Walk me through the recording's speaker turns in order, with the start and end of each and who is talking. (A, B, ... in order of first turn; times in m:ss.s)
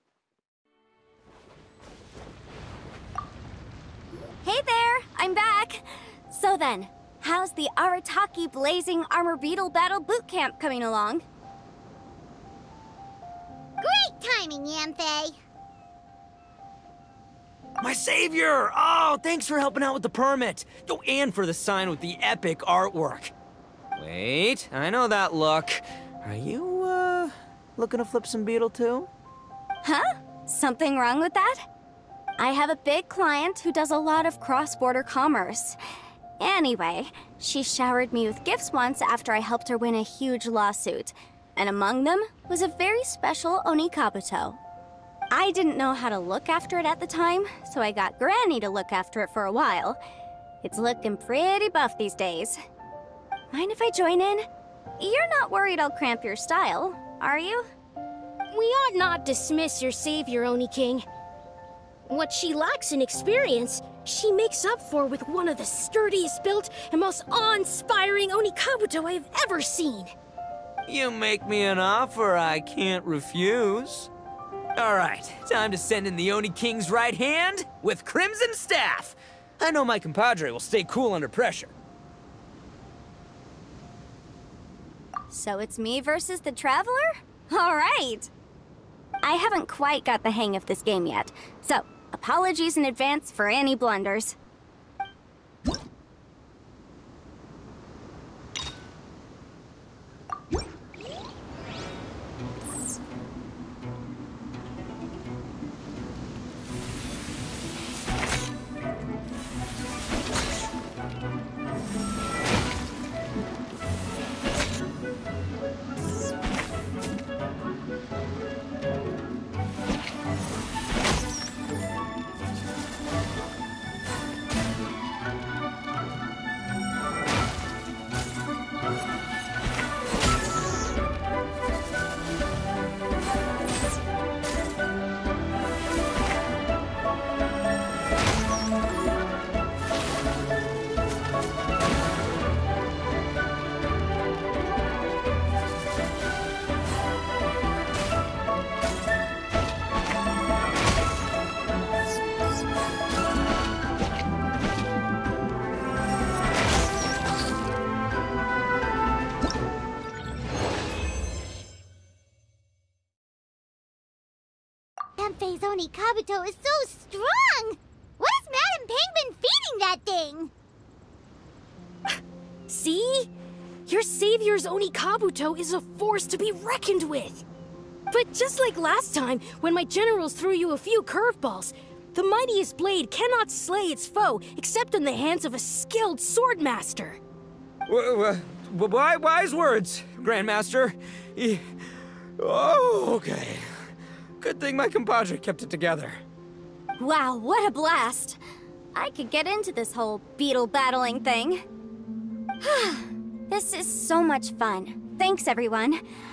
0:04.4-0:11.2 A
0:13.8-0:15.4 B
0:17.8-0:23.3 C
0:24.0-0:29.1 C
0:29.8-0:31.6 A
0:32.4-0:35.8 A
0:36.4-0:44.6 A
0:45.3-0:50.0 A
0:50.6-0:52.6 A
0:53.5-0:54.4 A
0:55.0-0:57.7 A
0:58.5-1:01.0 D
1:02.1-1:10.1 D
1:10.9-1:14.1 C
1:14.8-1:21.7 C
1:25.3-1:28.3 A
1:29.2-1:34.3 A
2:45.2-2:50.5 B
2:52.7-2:53.3 D
2:53.8-2:57.4 D
2:58.1-3:07.2 D
3:07.9-3:16.2 C
3:17.0-3:18.4 A
3:18.9-3:21.6 A
3:22.6-3:26.0 A